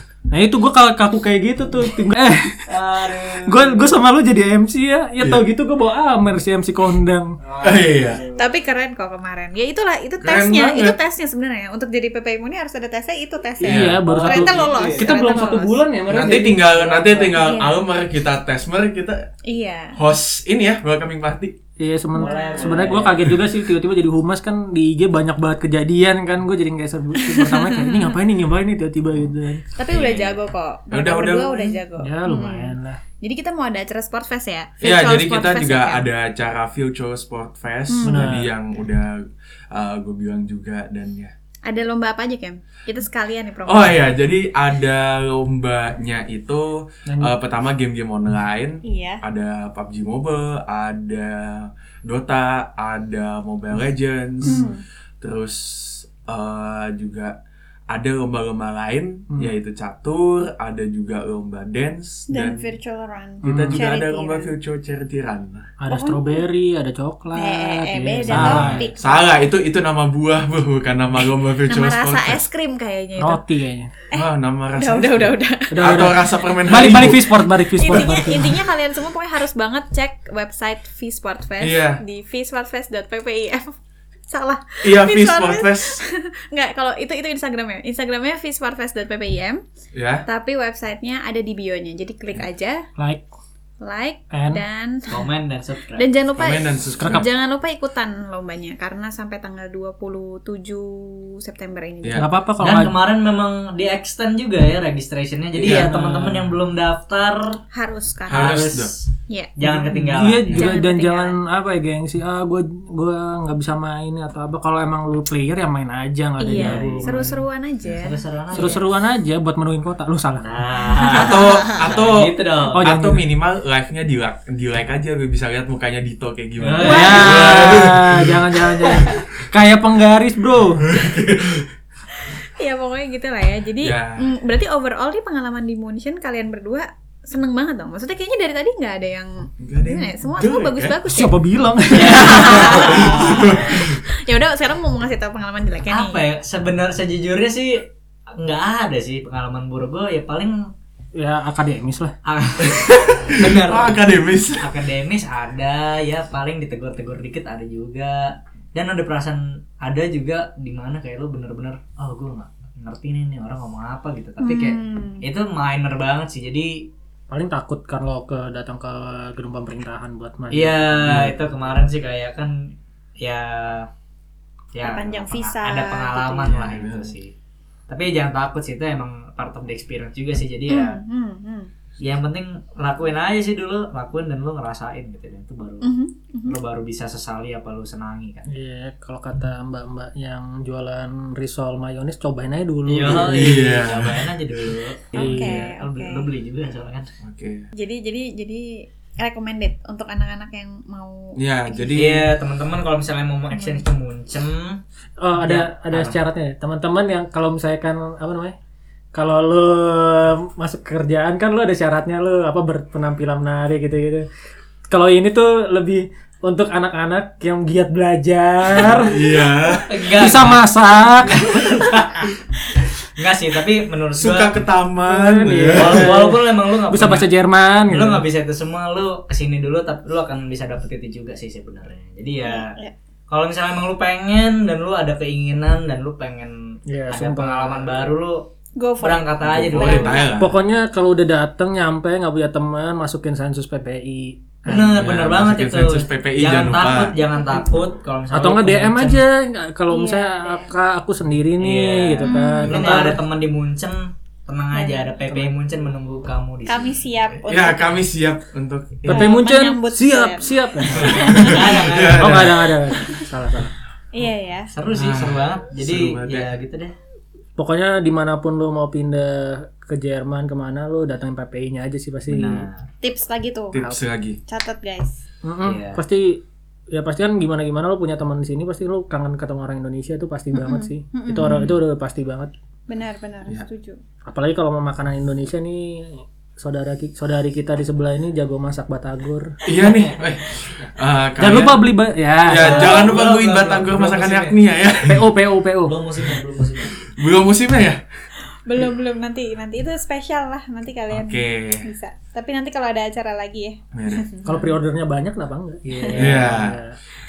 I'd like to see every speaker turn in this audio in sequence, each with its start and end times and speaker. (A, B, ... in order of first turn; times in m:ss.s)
0:00.3-0:02.7 A
0:02.7-0:03.9 B
0:03.4-0:07.4 A
0:07.4-0:08.4 B
0:07.6-0:08.2 C
0:08.4-0:15.8 D
0:10.2-0:11.0 C
0:13.6-0:17.5 A
0:13.6-0:14.0 C
0:14.0-0:15.3 B
0:16.1-0:19.3 C
0:17.3-0:17.9 D
0:19.4-0:20.0 D
0:20.0-0:21.6 C
0:21.8-0:29.6 A
0:22.2-0:22.7 D
0:22.2-0:23.3 B
0:27.2-0:28.2 D
0:29.8-0:36.0 D
0:29.9-0:30.4 B
0:30.9-0:31.6 C
0:32.0-0:33.0 A
0:34.8-0:41.3 C
0:37.9-0:38.4 D
0:38.0-0:38.5 A
0:41.7-0:44.0 D
0:43.6-0:57.4 C
0:47.1-0:47.3 A
0:48.8-0:49.2 D
0:54.4-0:54.7 A
0:54.4-0:54.8 D
0:57.9-1:02.7 C
1:02.3-1:04.5 D
1:03.4-1:03.8 A
1:03.4-1:05.7 C
1:05.8-1:08.9 A
1:05.9-1:06.4 D
1:07.4-1:09.2 D
1:08.3-1:12.4 C
1:08.3-1:08.8 B
1:11.6-1:13.4 D
1:13.2-1:13.9 A
1:14.1-1:16.1 D
1:14.1-1:18.3 C
1:15.7-1:18.6 A
1:17.7-1:23.7 D
1:21.6-1:22.0 C
1:24.3-1:29.6 D
1:24.8-1:26.0 C
1:29.9-1:30.2 C
1:30.2-1:32.8 D
1:33.0-1:33.3 A
1:33.8-1:35.3 D
1:34.3-1:34.6 A
1:35.1-1:36.1 B
1:35.9-1:42.3 D
1:36.4-1:37.3 C
1:37.0-1:37.3 A
1:42.0-1:42.3 C
1:42.1-1:43.0 A
1:42.6-1:47.6 B
1:45.6-1:45.9 C
1:45.6-1:46.6 A
1:47.7-1:48.7 D
1:48.3-1:48.9 C
1:48.3-1:50.7 B
1:49.3-1:49.5 D
1:49.6-1:57.4 A
1:50.2-1:51.4 D
1:56.4-1:58.8 D
1:56.5-1:58.8 B
1:58.5-2:00.5 A
2:00.4-2:02.9 B
2:01.1-2:01.6 D
2:01.1-2:08.3 C
2:02.7-2:03.3 A
2:06.6-2:07.9 B
2:06.8-2:10.9 A
2:06.8-2:07.8 D
2:10.8-2:11.7 C
2:12.6-2:21.4 D
2:13.8-2:14.3 C
2:19.6-2:21.0 C
2:21.1-2:23.0 A
2:21.9-2:23.5 B
2:22.0-2:26.2 D
2:22.2-2:24.0 C
2:25.9-2:30.6 B
2:31.1-2:32.2 A
2:32.2-2:34.0 B
2:32.6-2:34.6 C
2:34.6-2:46.9 B
2:44.4-2:45.2 D
2:47.3-2:51.3 A
2:50.5-2:53.9 B
2:51.1-2:51.3 C
2:54.7-2:57.3 B
2:54.8-2:56.6 D
2:56.6-2:57.1 C
2:57.9-3:01.0 B
3:00.7-3:01.7 D
3:02.0-3:05.9 B
3:05.8-3:06.6 D
3:06.4-3:08.5 B
3:08.5-3:13.6 A
3:12.9-3:17.1 B
3:13.0-3:14.8 C
3:15.1-3:16.3 D
3:15.1-3:15.7 A
3:17.2-3:17.7 C
3:17.8-3:21.9 D
3:21.4-3:22.3 C
3:21.9-3:24.8 B
3:23.5-3:23.8 D
3:25.2-3:28.6 A
3:25.4-3:26.2 B
3:29.1-3:34.3 A
3:34.9-3:39.3 A
3:38.8-3:40.0 C
3:39.7-3:42.3 B
3:40.2-3:41.4 A
3:43.2-3:44.6 B
3:44.2-3:46.1 C
3:45.1-3:48.2 A
3:45.7-3:47.3 B
3:47.9-3:52.8 B
3:52.5-3:52.9 D
3:53.3-3:58.5 B
3:56.9-3:58.0 A
3:58.8-4:00.3 D
3:59.0-4:00.2 B
3:59.4-4:00.6 C
4:00.4-4:05.2 A
4:04.7-4:09.2 B
4:04.7-4:07.2 C
4:07.5-4:07.9 D
4:08.3-4:13.2 A
4:09.9-4:10.7 D
4:11.6-4:16.8 B
4:12.2-4:13.2 D
4:14.7-4:15.4 D
4:16.6-4:17.8 D
4:17.5-4:19.4 C
4:19.0-4:21.5 A
4:19.1-4:21.9 D
4:20.9-4:22.6 B
4:21.0-4:22.7 C
4:22.2-4:23.7 A
4:24.1-4:24.7 D
4:24.7-4:27.0 B
4:24.9-4:26.5 C
4:27.6-4:32.7 A
4:32.3-4:32.9 B
4:33.0-4:33.8 D
4:33.7-4:34.4 C
4:34.5-4:35.2 D
4:35.4-4:42.5 A
4:35.6-4:36.0 B
4:40.5-4:41.7 D
4:42.9-4:44.0 D
4:44.3-4:49.6 A
4:49.6-4:51.8 C
4:49.8-4:50.2 B
4:51.4-4:53.1 A
4:52.4-4:55.3 C
4:52.6-4:54.6 B
4:55.0-4:56.0 A
4:55.8-4:57.0 B
4:57.0-4:58.0 C
4:58.7-5:04.5 D
5:01.1-5:01.8 C
5:03.9-5:04.3 C
5:04.4-5:07.0 A
5:05.8-5:06.6 B
5:06.2-5:06.8 C